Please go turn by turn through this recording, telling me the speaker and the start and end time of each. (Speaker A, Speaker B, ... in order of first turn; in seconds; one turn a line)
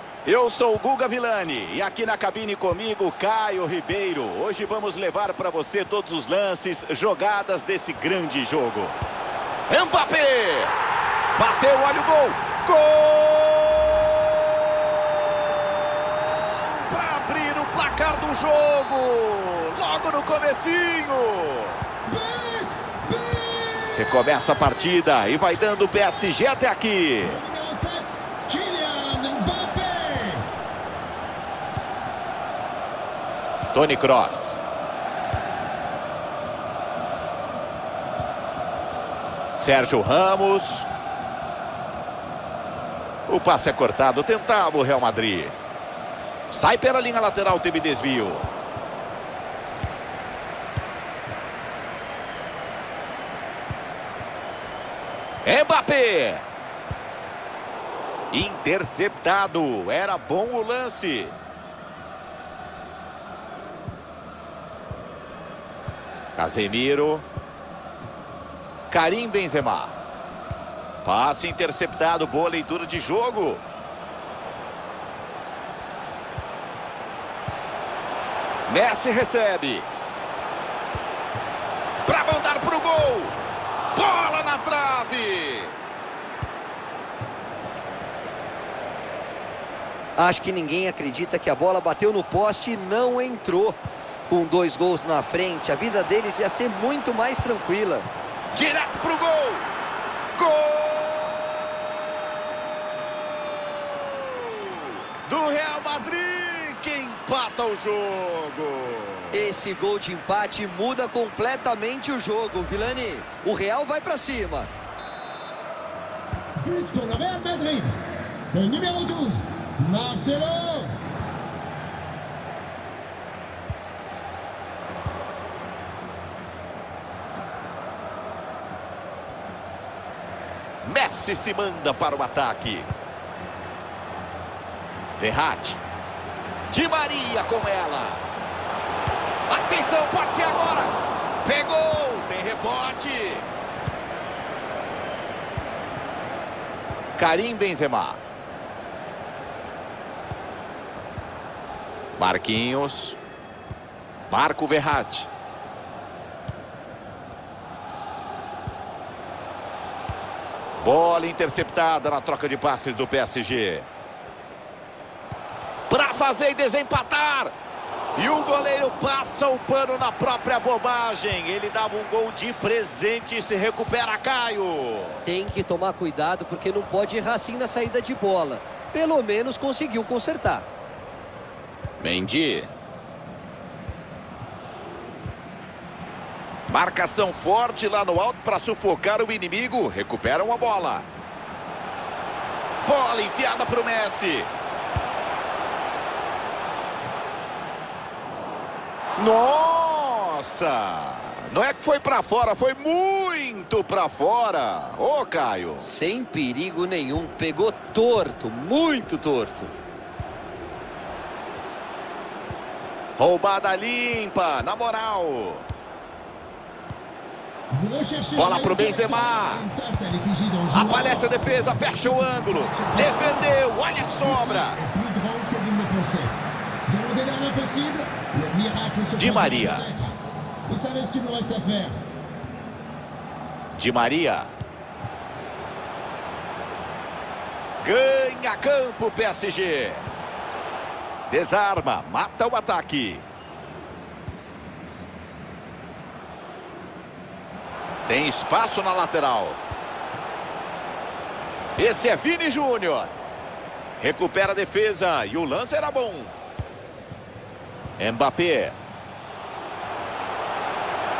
Speaker A: 0.3-9.0
Speaker A: 9.7-10.8
Speaker A: 11.4-21.8
Speaker B: 22.1-24.3
Speaker A: 24.0-27.4
Speaker B: 27.2-30.5
Speaker A: 33.7-34.6
Speaker A: 39.6-40.9
Speaker A: 43.3-45.5
Speaker A: 46.5-48.5
Speaker A: 55.5-56.5
Speaker A: 58.3-61.4
Speaker A: 66.4-67.2
Speaker A: 68.9-70.0
Speaker A: 71.0-73.6
Speaker A: 78.7-79.9
Speaker A: 82.1-83.4
Speaker A: 84.0-85.8
Speaker C: 90.2-98.1
Speaker A: 98.5-99.7
Speaker A: 100.4-101.9
Speaker A: 103.6-109.6
Speaker C: 109.3-114.7
Speaker B: 116.6-118.0
Speaker B: 118.5-120.9
Speaker A: 130.8-132.9
Speaker A: 135.2-135.8
Speaker A: 136.7-138.2
Speaker A: 139.5-143.5
Speaker A: 147.2-148.2
Speaker A: 152.2-153.2
Speaker A: 154.3-155.3
Speaker A: 160.8-163.9
Speaker A: 165.9-167.6
Speaker A: 168.2-175.2
Speaker C: 175.2-180.7
Speaker A: 182.0-182.7
Speaker A: 186.7-191.1
Speaker A: 192.9-194.5
Speaker A: 199.2-205.9
Speaker C: 205.8-209.7
Speaker A: 213.2-215.7
Speaker B: 217.7-223.6
Speaker A: 218.3-219.7
Speaker A: 220.7-224.8
Speaker B: 224.2-226.3
Speaker B: 226.9-230.2
Speaker A: 229.2-229.9
Speaker B: 230.7-232.0
Speaker A: 233.8-234.5
Speaker A: 237.8-240.1
Speaker A: 241.3-243.2
Speaker A: 248.1-249.6
Speaker A: 251.8-253.1
Speaker A: 254.0-256.4
Speaker A: 258.0-258.8